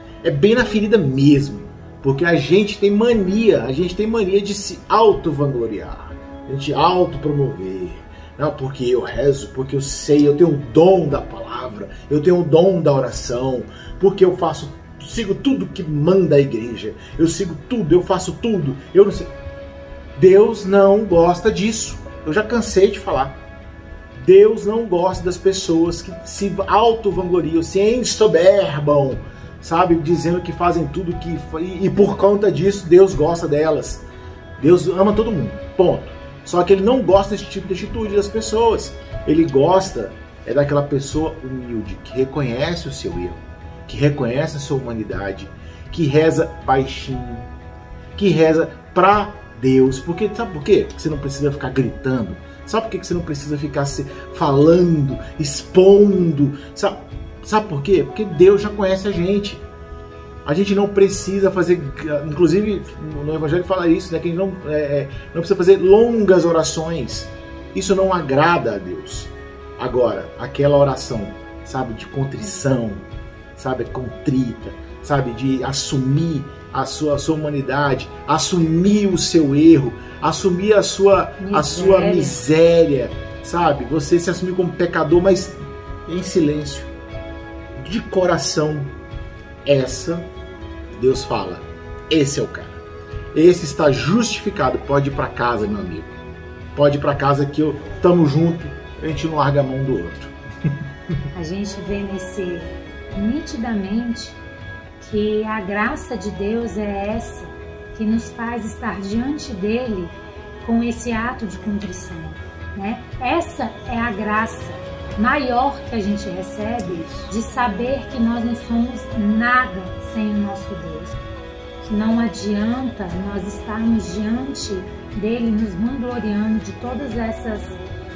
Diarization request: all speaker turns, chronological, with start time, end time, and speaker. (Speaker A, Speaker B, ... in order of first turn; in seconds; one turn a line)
Speaker A: 0.2-19.3
Speaker A: 20.1-23.4
Speaker A: 24.1-34.0
Speaker A: 34.6-47.5
Speaker A: 48.1-59.6
Speaker A: 60.4-73.0
Speaker A: 73.5-86.9
Speaker B: 81.4-82.4
Speaker A: 87.8-88.9
Speaker A: 89.6-90.3
Speaker A: 90.9-92.8
Speaker A: 93.3-96.2
Speaker A: 96.7-100.3
Speaker B: 101.3-104.4
Speaker B: 105.0-121.2
Speaker A: 116.8-117.3
Speaker B: 121.8-127.8